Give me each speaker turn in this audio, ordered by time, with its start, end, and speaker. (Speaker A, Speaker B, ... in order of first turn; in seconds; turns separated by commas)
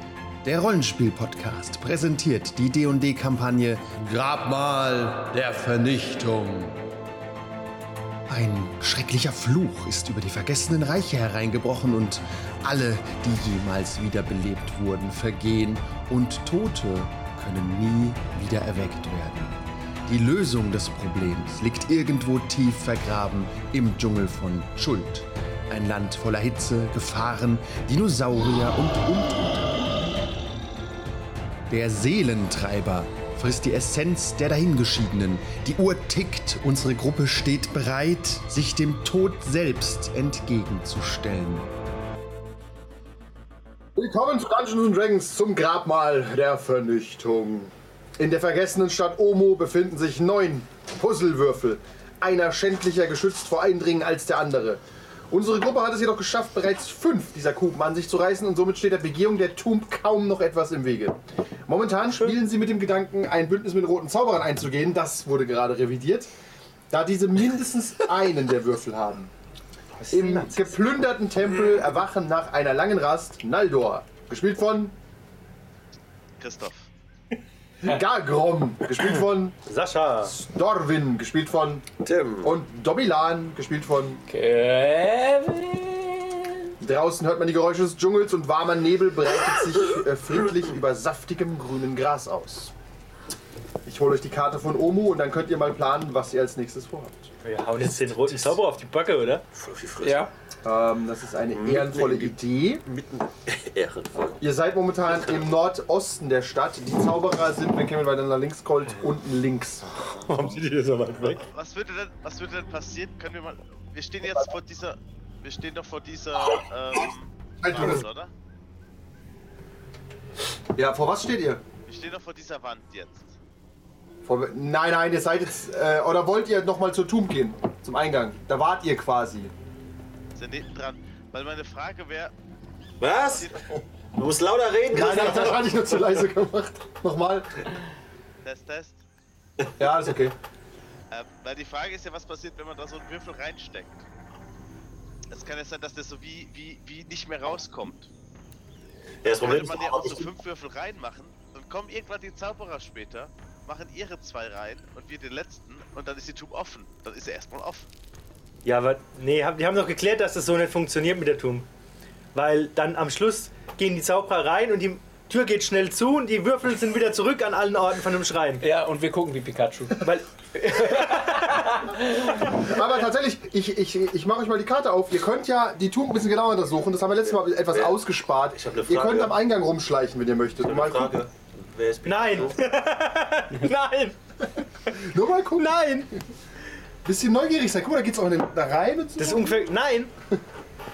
Speaker A: 0.4-6.8, Speaker A: 8.3-29.9, Speaker A: 31.7-41.7, Speaker B: 44.0-66.3, Speaker B: 66.9-69.3, Speaker C: 70.0-70.7, Speaker B: 70.1-75.0, Speaker D: 76.4-76.9, Speaker B: 77.8-79.6, Speaker C: 79.7-80.4, Speaker B: 80.2-81.9, Speaker E: 82.0-82.5, Speaker B: 82.4-84.2, Speaker F: 84.3-86.7, Speaker B: 86.8-92.7, Speaker B: 93.9-97.3, Speaker C: 97.4-99.4, Speaker E: 97.9-98.6, Speaker E: 99.5-100.2, Speaker F: 100.0-100.3, Speaker B: 100.6-102.8, Speaker E: 101.5-104.4, Speaker B: 104.4-109.8, Speaker C: 110.0-111.4, Speaker D: 111.5-118.3, Speaker B: 117.6-118.0, Speaker B: 120.8-121.6, Speaker D: 121.9-123.3, Speaker B: 124.2-129.5, Speaker D: 130.3-132.3, Speaker E: 133.0-136.1, Speaker D: 133.1-133.7, Speaker B: 134.9-137.6, Speaker D: 138.4-139.0, Speaker B: 139.8-140.4, Speaker D: 141.1-144.1, Speaker D: 145.3-148.1, Speaker E: 149.2-150.3, Speaker D: 149.2-157.9, Speaker C: 158.7-161.7, Speaker C: 162.3-168.7, Speaker F: 168.6-172.6, Speaker C: 170.0-171.7, Speaker B: 172.4-181.2, Speaker E: 177.7-178.0, Speaker E: 178.5-179.4, Speaker E: 180.6-182.8, Speaker C: 182.0-184.2, Speaker B: 184.9-185.8, Speaker C: 185.6-186.1, Speaker B: 187.0-189.7, Speaker C: 189.2-190.1